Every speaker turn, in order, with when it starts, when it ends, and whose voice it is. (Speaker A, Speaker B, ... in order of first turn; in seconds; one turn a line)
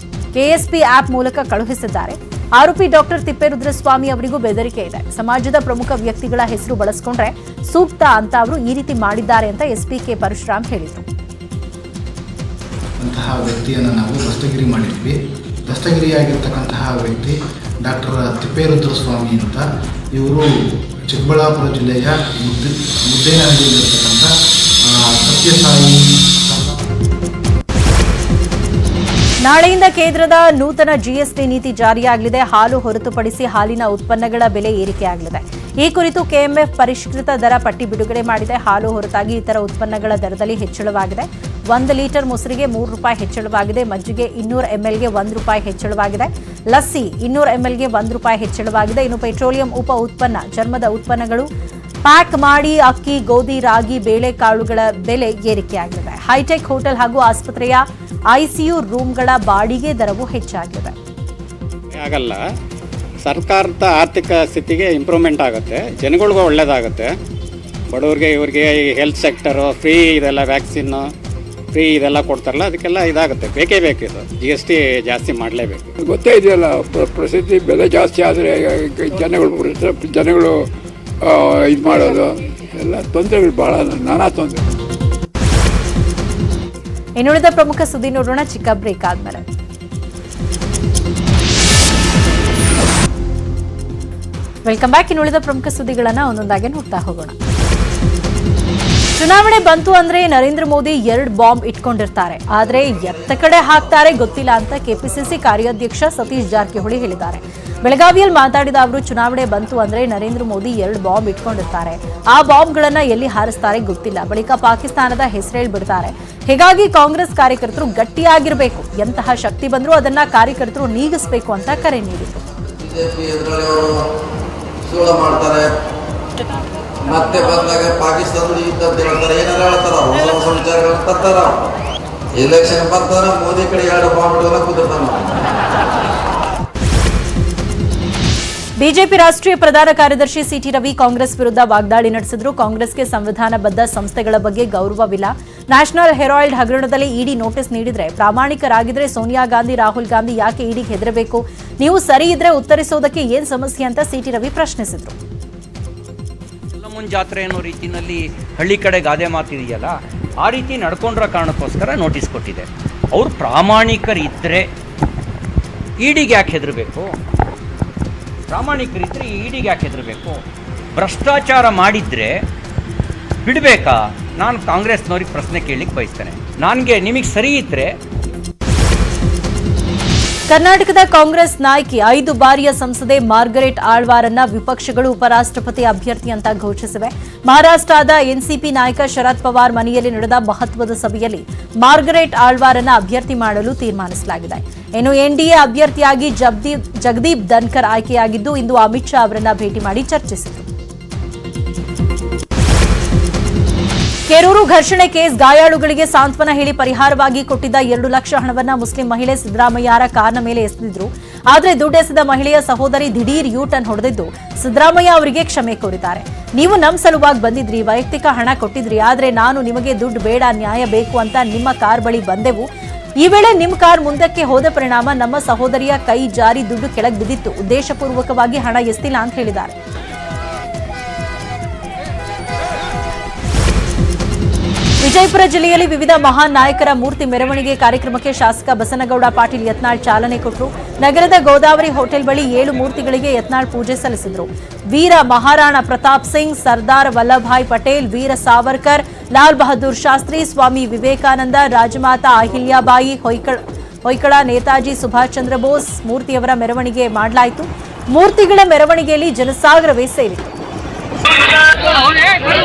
Speaker A: 0.3-11.0
Speaker B: 13.0-24.3
Speaker B: 24.8-26.8
Speaker A: 29.4-51.5
Speaker A: 52.0-61.0
Speaker C: 61.9-62.4
Speaker C: 63.2-67.1
Speaker C: 67.9-71.1
Speaker C: 71.7-75.9
Speaker D: 76.0-80.6
Speaker D: 81.2-84.6
Speaker A: 87.2-89.4
Speaker A: 94.7-97.3
Speaker A: 99.2-122.5
Speaker E: 122.6-124.1
Speaker E: 124.8-125.8
Speaker E: 127.0-131.6
Speaker E: 132.3-135.4
Speaker A: 138.8-155.2
Speaker F: 156.8-164.7
Speaker F: 166.0-167.2
Speaker F: 168.5-170.4
Speaker F: 170.9-172.4
Speaker F: 173.4-177.9
Speaker A: 180.5-200.7
Speaker A: 204.3-222.7
Speaker A: 223.2-229.7
Speaker A: 235.0-260.6